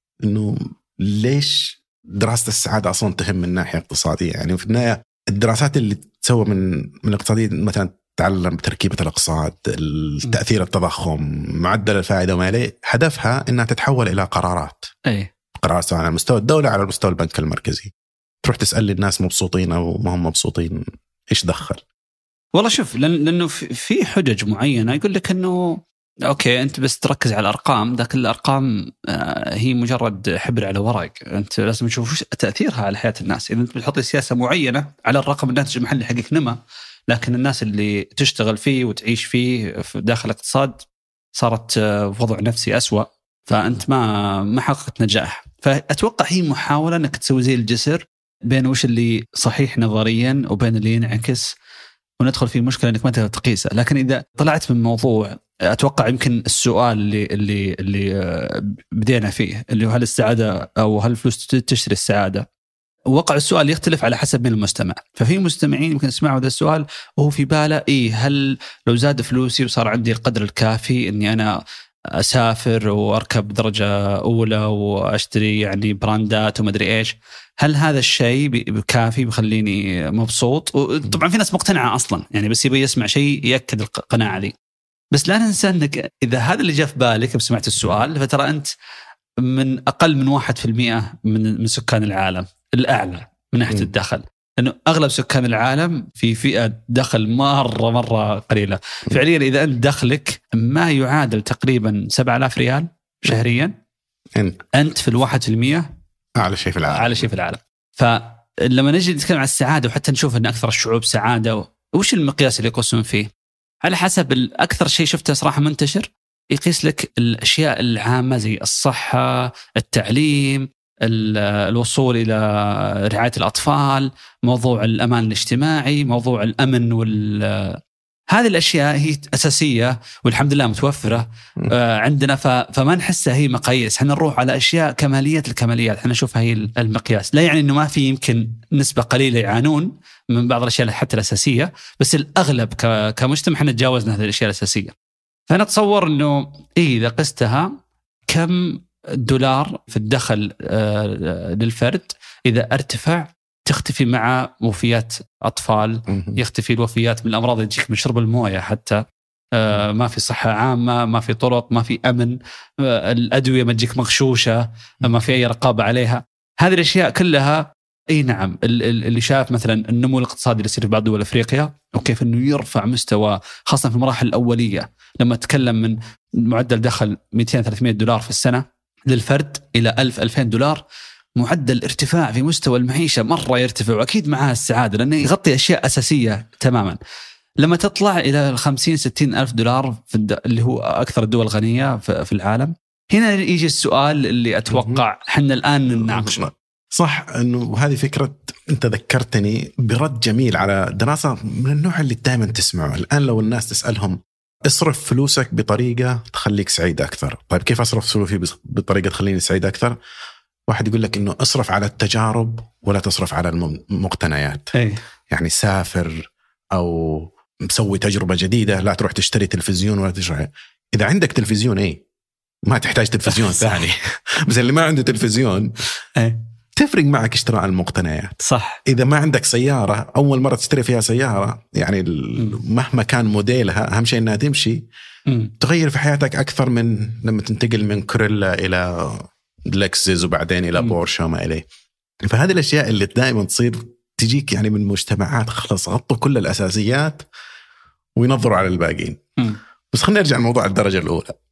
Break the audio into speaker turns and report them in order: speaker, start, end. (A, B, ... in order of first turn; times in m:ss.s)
0:00.2-0:14.9 A
0:15.6-0:17.9 A
0:18.4-0:21.8 A
0:22.6-0:36.6 B
0:37.1-0:40.8 B
0:41.4-0:51.6 B
0:52.2-1:02.5 B
1:03.1-1:11.5 B
1:12.2-1:24.5 B
1:25.1-1:28.7 B
1:29.4-1:43.7 B
1:44.4-1:44.7 A
1:44.7-1:45.9 B
1:46.4-1:47.3 A
1:46.9-1:53.3 B
1:53.8-2:07.8 B
2:08.3-2:24.9 B
2:25.5-2:27.7 B
2:28.3-3:00.8 B
2:36.1-2:36.4 A
3:01.4-3:07.0 B
3:07.6-3:16.4 B
3:14.7-3:15.0 A
3:15.9-3:30.0 A
3:30.7-3:34.7 A
3:34.7-3:35.0 B
3:35.3-3:42.0 A
3:42.7-3:45.7 A
3:43.3-3:43.7 B
3:46.2-3:46.4 B
3:46.8-3:54.8 A
3:48.4-3:48.8 B
3:55.6-4:01.6 A
4:02.2-4:07.3 A
4:08.2-4:09.2 A
4:09.9-4:11.3 A